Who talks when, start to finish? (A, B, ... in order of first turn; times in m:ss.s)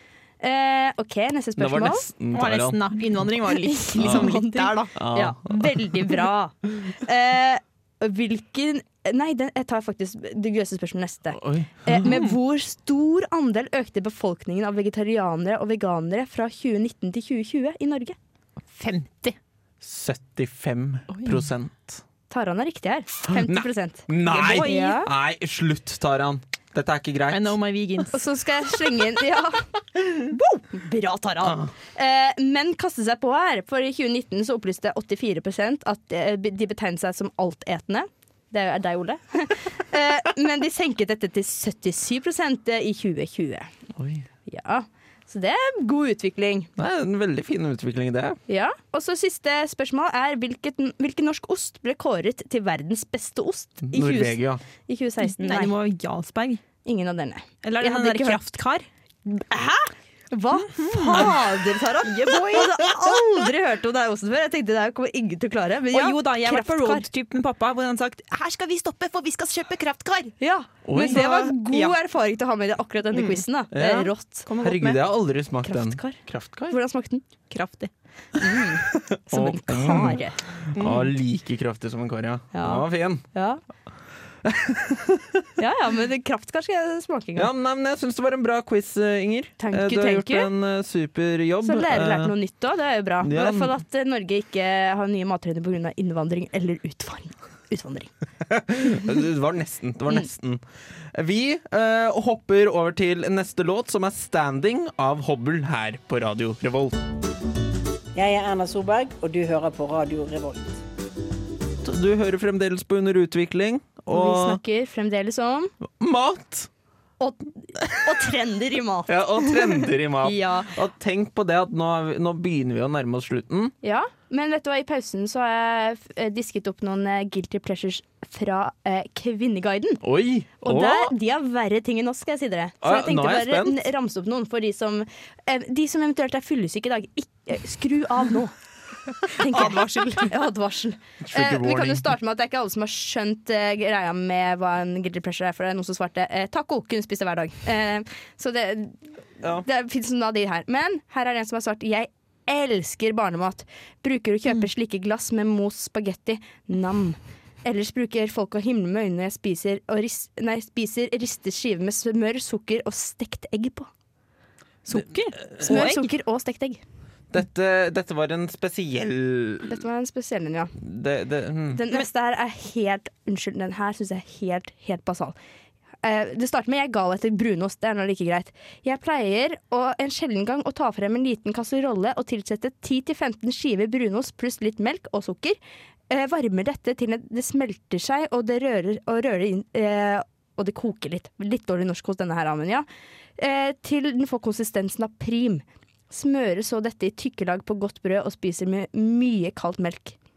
0:00.4-0:02.1 A
0:01.6-0:02.9 B
0:02.3-0:04.9 C
0:03.6-0:18.2 A
0:04.0-0:04.2 B
0:04.9-0:05.7 B
0:11.3-0:12.0 B
0:12.0-0:12.4 C
0:18.7-0:19.4 C
0:19.8-0:22.0 B
0:21.1-0:21.4 C
0:22.3-0:25.1 A
0:23.4-0:27.6 B
0:24.3-0:25.0 C
0:27.3-0:28.2 C
0:28.1-0:43.7 A
0:31.4-0:31.7 B
0:44.0-0:44.2 B
0:44.5-0:46.7 A
0:46.8-0:48.4 B
0:48.5-0:55.7 A
0:53.8-0:54.6 B
0:55.2-0:56.6 C
0:56.8-0:58.4 A
0:57.6-0:58.9 C
0:59.3-1:07.0 A
1:00.6-1:02.7 C
1:05.9-1:10.3 C
1:10.4-1:14.5 A
1:10.8-1:11.2 B
1:10.9-1:12.0 C
1:13.1-1:13.4 C
1:13.7-1:16.8 B
1:14.4-1:15.0 C
1:15.6-1:17.2 A
1:17.5-1:17.9 C
1:18.4-1:20.4 A
1:18.5-1:23.2 B
1:20.8-1:21.1 C
1:22.5-1:23.6 A
1:24.4-1:25.4 B
1:25.6-1:27.5 A
1:27.4-1:32.3 B
1:29.6-1:30.5 A
1:31.6-1:38.1 A
1:33.2-1:33.7 B
1:38.5-1:40.6 B
1:41.1-1:47.0 B
1:48.1-1:50.8 D
1:51.8-1:54.6 B
1:54.1-1:55.7 A
1:56.0-1:56.7 B
1:57.2-2:00.7 A
1:59.1-2:03.7 B
2:03.8-2:10.0 A
2:10.0-2:11.1 B
2:10.6-2:18.5 A
2:12.8-2:13.8 B
2:19.2-2:29.0 A
2:19.5-2:19.8 B
2:21.2-2:22.1 B
2:29.6-2:43.9 A
2:44.8-2:46.1 C
2:45.6-2:46.8 A
2:47.3-2:49.8 B
2:49.7-2:50.7 A
2:50.8-2:51.8 B
2:51.7-2:55.3 A
2:56.0-3:05.6 A
3:06.1-3:12.8 A
3:13.4-3:20.2 A